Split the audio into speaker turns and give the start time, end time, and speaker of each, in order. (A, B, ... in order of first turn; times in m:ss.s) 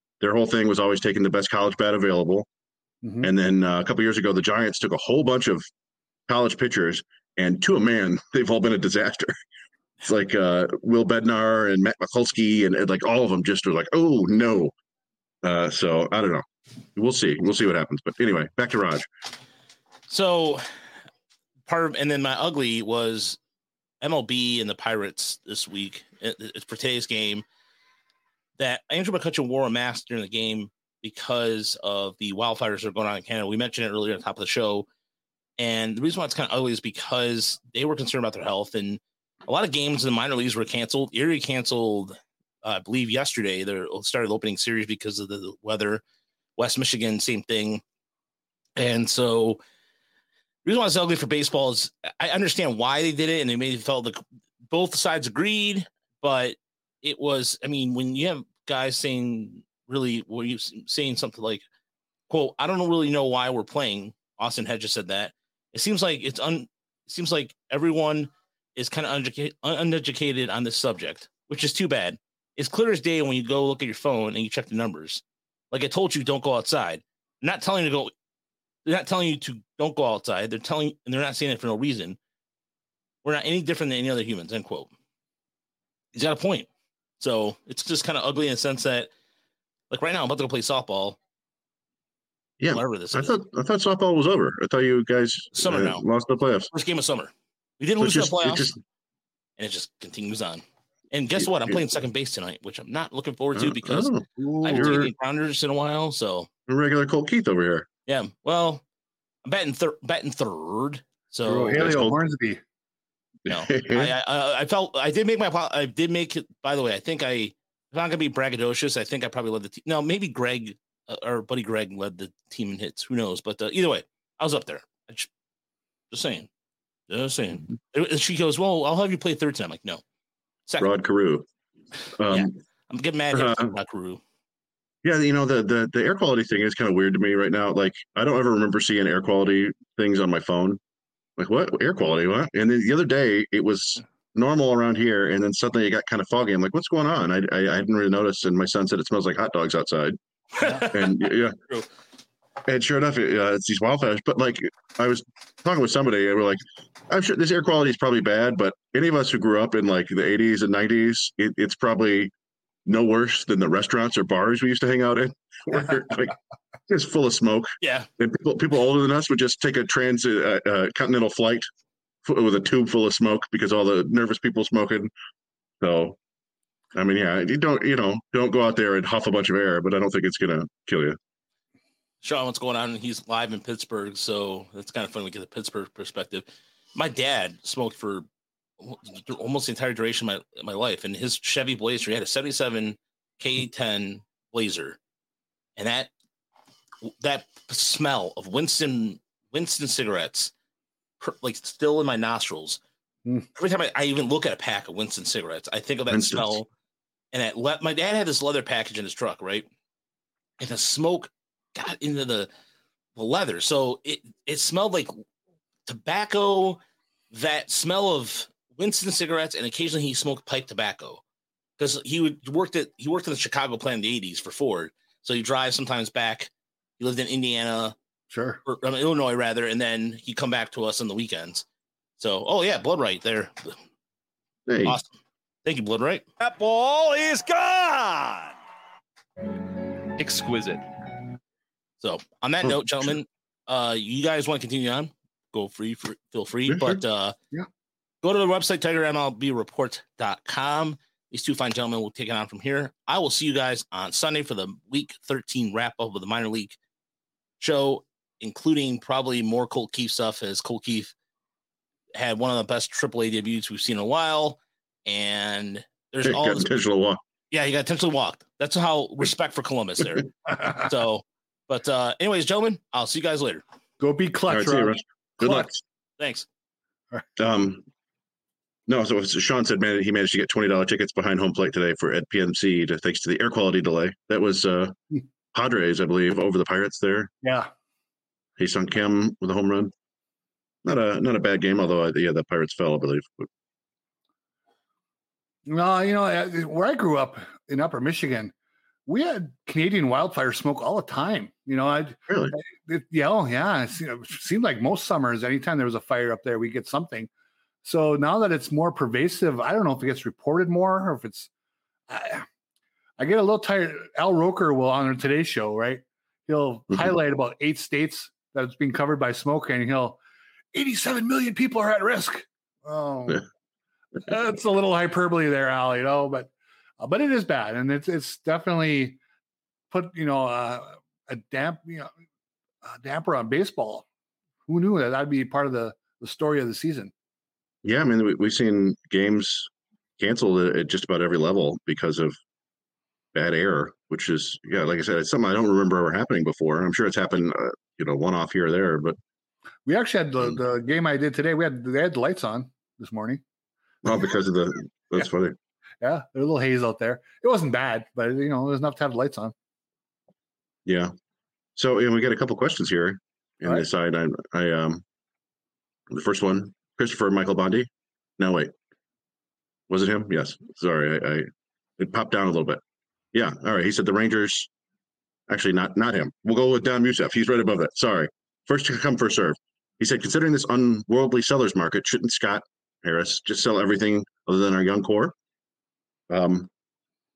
0:00.2-0:02.5 A
0:03.0-0:03.3 B
0:03.2-0:05.6 A
0:06.3-0:09.4 A
0:10.0-0:14.7 A
0:15.4-0:16.4 A
0:16.9-0:19.1 A
0:20.1-0:20.7 C
0:21.7-0:23.4 C
0:24.0-0:27.4 C
0:28.6-0:34.9 C
0:35.6-0:46.0 C
0:46.6-0:47.8 C
0:48.8-0:49.6 C
0:50.6-1:01.6 C
1:02.3-1:18.1 C
1:18.8-1:22.2 C
1:23.2-1:24.9 C
1:26.1-1:26.7 C
1:27.2-1:29.1 C
1:29.9-1:31.2 C
1:32.6-1:36.7 A
1:32.7-1:33.4 C
1:35.5-1:36.0 C
1:36.7-1:38.7 C
1:38.0-1:38.8 A
1:39.6-1:46.5 C
1:41.4-1:41.8 A
1:43.6-1:45.1 A
1:44.4-1:45.0 B
1:46.7-1:47.9 A
1:48.0-1:48.8 C
1:49.4-1:51.9 C
1:51.4-1:52.6 B
1:51.7-1:52.2 A
1:53.5-2:05.3 C
1:53.5-1:54.1 A
2:06.1-2:06.5 C
2:07.1-2:10.0 C
2:10.6-2:10.9 C
2:10.8-2:11.4 A
2:12.2-2:12.5 A
2:12.3-2:14.2 C
2:13.3-2:13.7 A
2:15.0-2:20.8 A
2:21.4-2:30.2 A
2:30.6-2:31.9 C
2:30.9-2:31.6 A
2:32.6-2:42.3 A
2:42.8-2:46.3 A
2:46.9-2:51.7 A
2:47.8-2:48.1 C
2:52.2-2:55.1 A
2:55.8-2:56.2 A
2:56.9-3:01.2 A
3:02.2-3:08.2 C
3:08.8-3:15.0 C
3:15.8-3:16.1 C
3:17.0-3:20.5 C
3:21.2-3:22.8 C
3:23.5-3:26.7 C
3:26.1-3:26.6 A
3:27.3-3:29.7 C
3:30.6-3:32.5 C
3:33.2-3:35.1 C
3:35.8-3:36.8 C
3:37.3-3:41.2 C
3:41.8-3:47.9 C
3:48.3-3:48.6 B
3:48.6-3:51.6 C
3:52.2-3:53.8 C
3:54.7-3:55.0 A
3:54.8-3:55.1 C
3:55.6-3:56.2 C
3:56.4-3:58.6 D
4:00.2-4:00.8 D
4:02.0-4:07.4 C
4:06.7-4:07.0 A
4:08.2-4:16.8 C
4:17.6-4:21.1 C
4:22.1-4:26.7 C
4:26.2-4:27.2 A
4:27.5-4:33.6 C
4:34.0-4:35.7 B
4:34.5-4:35.8 A
4:36.2-4:36.4 C
4:37.4-4:37.8 A
4:38.9-4:45.0 A
4:45.5-4:47.3 A
4:47.4-4:47.7 B
4:48.6-4:49.9 A
4:50.8-4:53.5 A
4:55.6-4:58.5 B
4:59.1-5:07.3 B
5:02.3-5:02.5 A
5:07.8-5:11.5 B
5:12.1-5:12.4 B
5:13.2-5:20.2 B
5:20.7-5:23.4 B
5:24.2-5:29.2 B
5:29.9-5:32.1 B
5:32.8-5:34.0 B
5:34.7-5:37.1 B
5:37.8-5:42.3 A
5:43.3-5:49.2 A
5:49.8-5:53.4 B
5:54.0-5:55.6 A
5:56.0-5:59.5 B
6:00.8-6:01.1 A
6:01.8-6:05.0 A
6:06.1-6:08.7 A
6:09.9-6:11.4 A
6:12.0-6:12.8 A
6:13.3-6:14.7 A
6:15.5-6:25.3 A
6:26.3-6:26.7 A